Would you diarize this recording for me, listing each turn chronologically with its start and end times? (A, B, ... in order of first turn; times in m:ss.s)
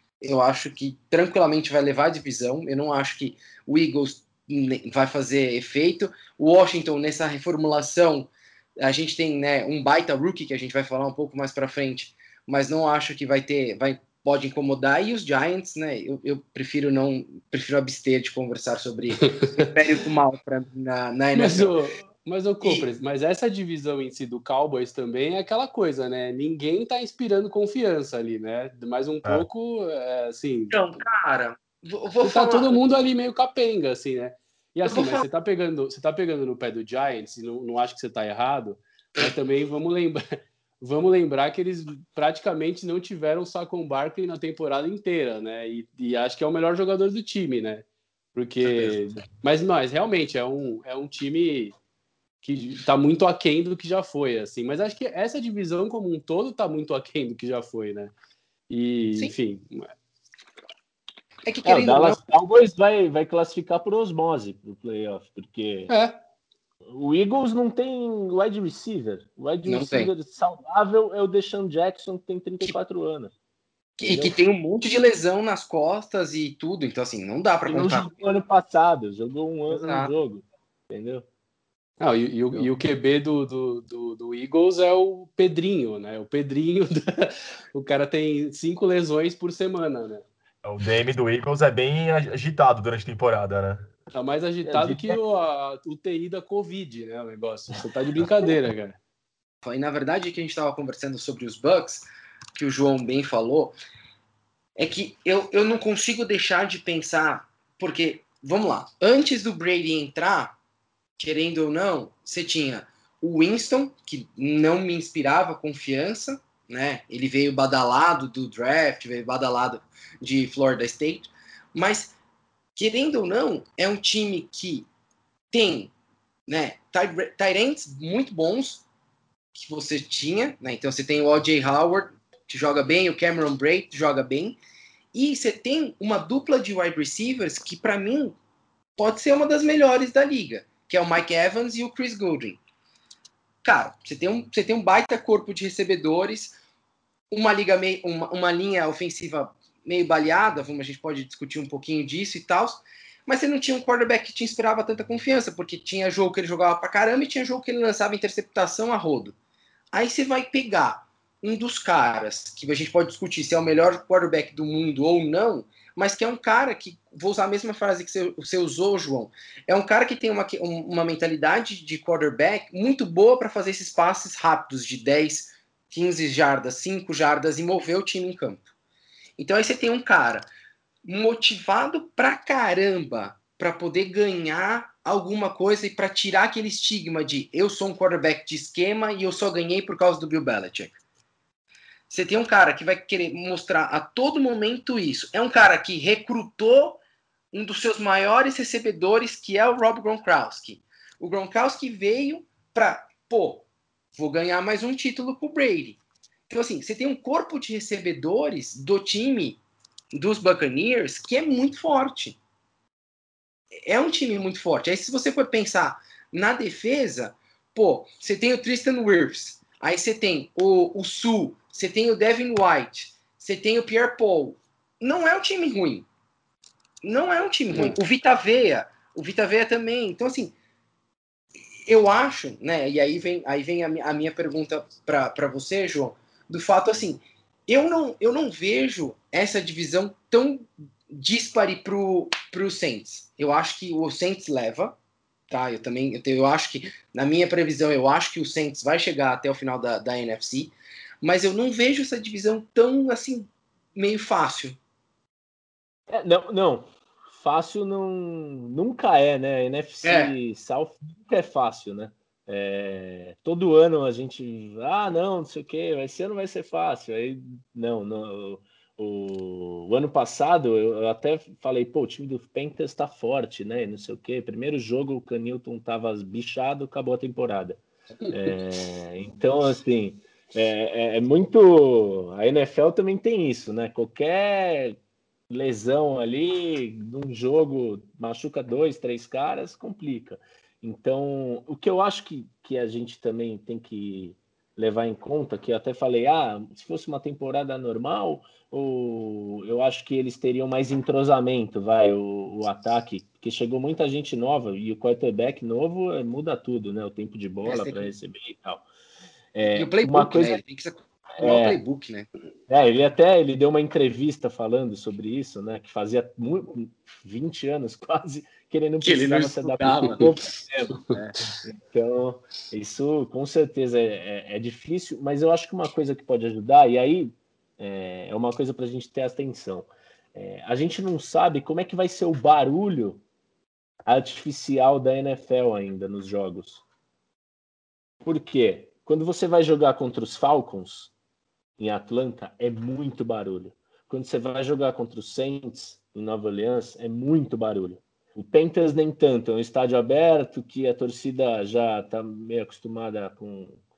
0:00.2-0:21.7 A
0:21.3-0:30.8 B
0:22.6-0:22.9 A
0:30.7-0:32.7 A
0:32.2-0:51.7 B
0:34.8-0:35.3 A
0:48.6-0:49.0 A
0:52.4-0:58.1 B
0:58.7-0:59.9 B
1:01.4-1:02.2 A
1:01.6-1:05.9 C
1:05.9-1:06.2 B
1:06.9-1:13.3 C
1:09.7-1:10.1 A
1:14.0-1:18.1 A
1:14.0-1:14.3 C
1:17.7-1:21.2 C
1:19.7-1:20.1 A
1:22.0-1:30.3 B
1:30.6-1:33.9 D
1:34.1-1:39.0 B
1:34.6-1:35.2 C
1:39.6-1:43.7 A
1:44.8-1:50.6 A
1:51.2-2:02.1 A
2:02.8-2:04.9 A
2:05.5-2:05.9 A
2:06.5-2:08.8 A
2:09.6-2:14.6 A
2:15.1-2:18.4 A
2:19.0-2:22.6 A
2:23.6-2:26.6 A
2:27.3-2:39.3 A
2:39.9-2:58.7 A
2:59.4-3:00.5 A
3:01.0-3:11.0 A
3:12.1-3:17.0 A
3:17.5-3:29.6 A
3:30.1-3:32.4 A
3:33.9-3:46.1 A
3:47.0-3:50.5 A
3:51.9-4:05.0 A
4:05.5-4:14.8 A
4:16.1-5:08.8 C
4:20.0-4:20.3 A
5:07.6-5:08.1 A
5:09.6-5:10.6 C
5:09.8-5:12.3 A
5:11.4-5:11.8 C
5:12.7-5:33.2 C
5:19.0-5:20.3 A
5:34.0-5:36.8 C
5:38.2-5:41.1 C
5:41.8-5:53.8 C